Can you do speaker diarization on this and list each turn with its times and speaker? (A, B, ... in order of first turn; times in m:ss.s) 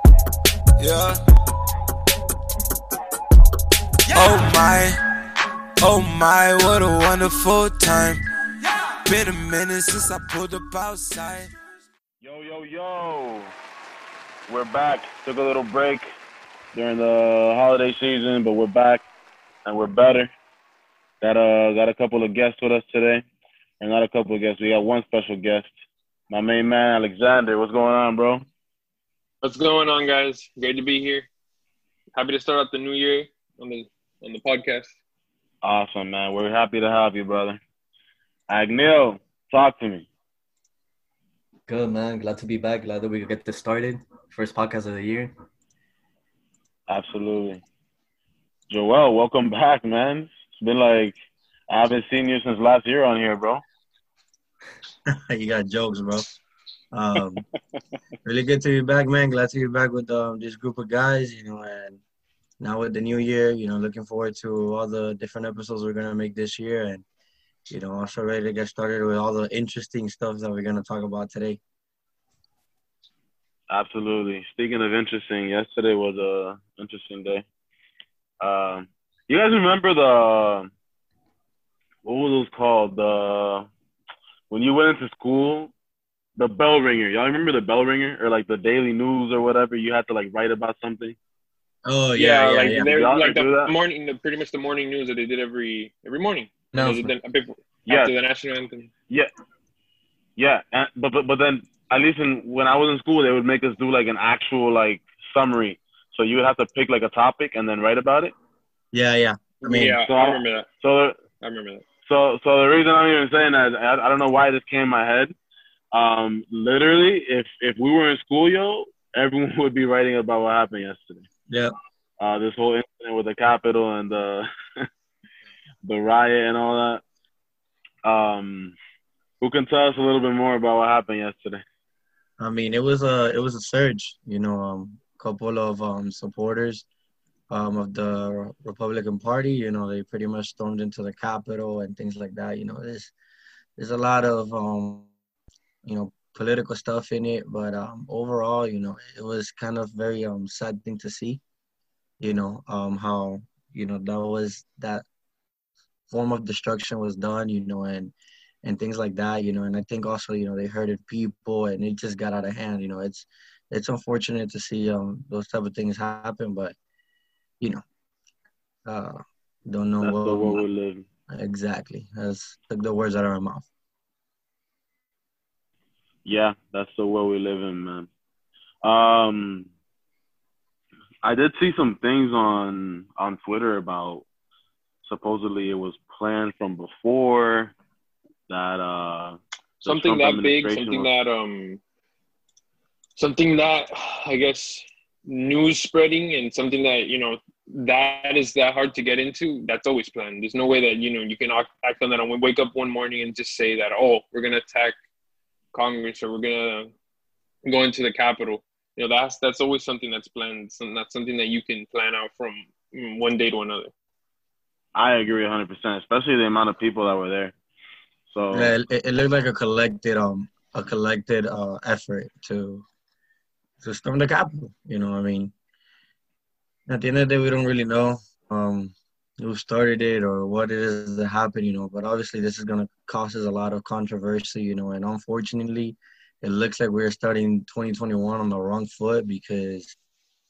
0:00.8-0:01.2 A
0:04.1-0:05.0 A
0:05.8-0:11.5 A
0:12.2-0:13.5 B
0:14.5-0:16.0 B
0:16.7-0:19.1 B
0:19.6-0:20.3 B
0:21.2-0:23.2 B
0:23.8-0:25.7 B
0:26.3-0:28.4 B
0:29.4-0:31.3 C
0:32.2-0:34.9 C
0:35.6-0:37.6 B
0:38.5-0:40.1 B
0:41.7-0:45.3 D
0:46.9-0:47.6 B
0:48.7-0:51.2 B
0:51.7-0:53.6 B
0:55.1-0:56.3 E
0:56.9-0:57.4 E
0:58.2-1:02.0 E
1:02.6-1:07.0 E
1:07.7-1:11.6 E
1:13.7-1:17.4 B
1:18.4-1:20.7 B
1:22.0-1:23.7 B
1:24.5-1:25.7 B
1:26.4-1:31.2 B
1:31.9-1:32.9 E
1:32.2-1:38.9 C
1:32.8-1:33.7 B
1:36.7-1:37.1 D
1:37.9-1:38.1 B
1:40.4-1:48.3 B
1:48.9-1:50.0 E
1:49.6-1:50.7 C
1:50.0-1:51.2 B
1:51.4-1:51.8 C
1:52.1-1:55.3 B
1:55.9-2:01.3 B
2:01.5-2:01.7 E
2:02.2-2:04.9 B
2:05.8-2:07.0 B
2:08.0-2:08.8 B
2:09.4-2:11.6 B
2:12.4-2:16.8 E
2:17.5-2:23.1 E
2:23.8-2:25.1 E
2:25.8-2:31.4 E
2:32.2-2:35.0 E
2:36.1-2:46.8 E
2:48.9-2:50.6 E
2:50.0-2:51.0 B
2:51.3-2:53.7 E
2:56.2-2:58.1 B
2:58.8-2:59.7 B
3:01.2-3:04.2 B
3:05.0-3:07.7 B
3:08.5-3:11.1 B
3:09.8-3:11.8 C
3:13.2-3:25.0 C
3:25.7-3:26.9 C
3:27.7-3:33.9 C
3:35.0-3:37.6 B
3:38.3-3:38.8 B
3:38.5-3:42.8 E
3:43.8-3:45.5 E
3:46.9-4:00.0 E